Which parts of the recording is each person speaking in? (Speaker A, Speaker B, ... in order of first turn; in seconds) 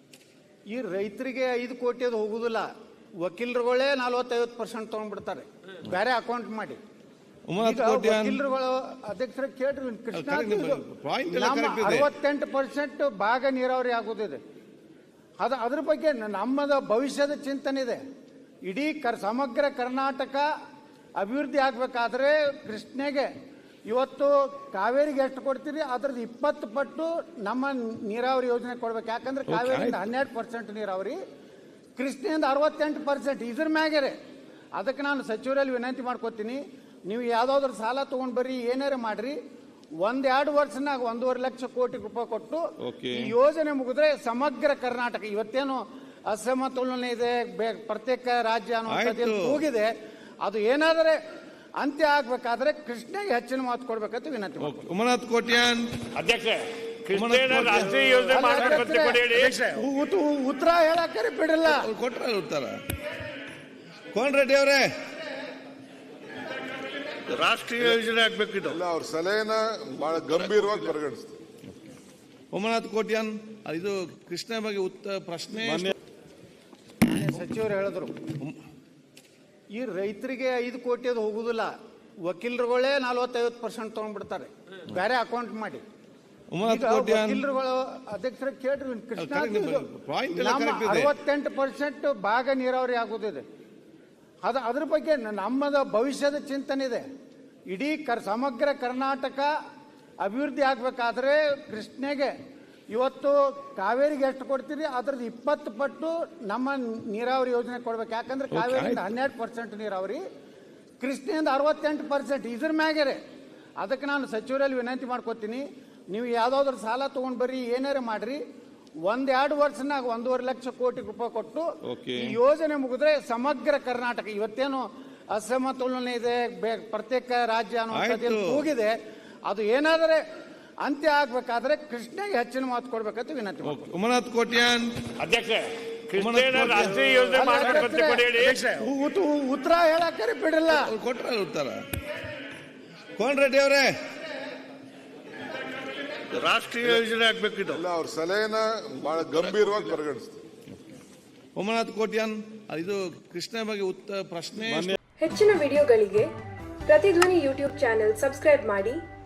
Speaker A: 0.7-2.7, 3.2-6.8, 7.6-14.4, 15.4-18.0, 18.6-20.5, 21.2-23.3, 23.9-31.2, 32.0-34.2, 34.8-39.4, 40.0-49.9, 50.4-51.2, 51.8-54.9, 58.3-61.9, 77.0-78.2, 79.7-81.7, 82.3-85.8, 86.6-93.4, 94.4-97.0, 97.7-99.5, 100.2-102.3, 102.9-110.2, 111.0-113.2, 113.8-118.4, 119.0-130.2, 130.8-133.9, 137.3-140.9
Speaker B: 7.5-8.4, 10.1-12.1, 29.5-30.1, 42.8-43.3, 48.9-49.6, 54.6-56.0, 57.1-58.8, 61.6-62.8, 64.1-64.9, 72.5-75.9, 86.5-87.4, 89.2-91.1, 108.5-109.1, 121.8-122.4, 127.9-128.6, 133.6-135.0, 136.2-137.9, 140.7-141.8, 143.2-144.0, 151.6-154.9
Speaker C: 56.1-59.8, 67.3-68.8, 135.2-138.6, 146.3-147.8
Speaker D: 68.7-71.3, 147.7-150.4
Speaker E: 155.2-156.3, 156.9-159.0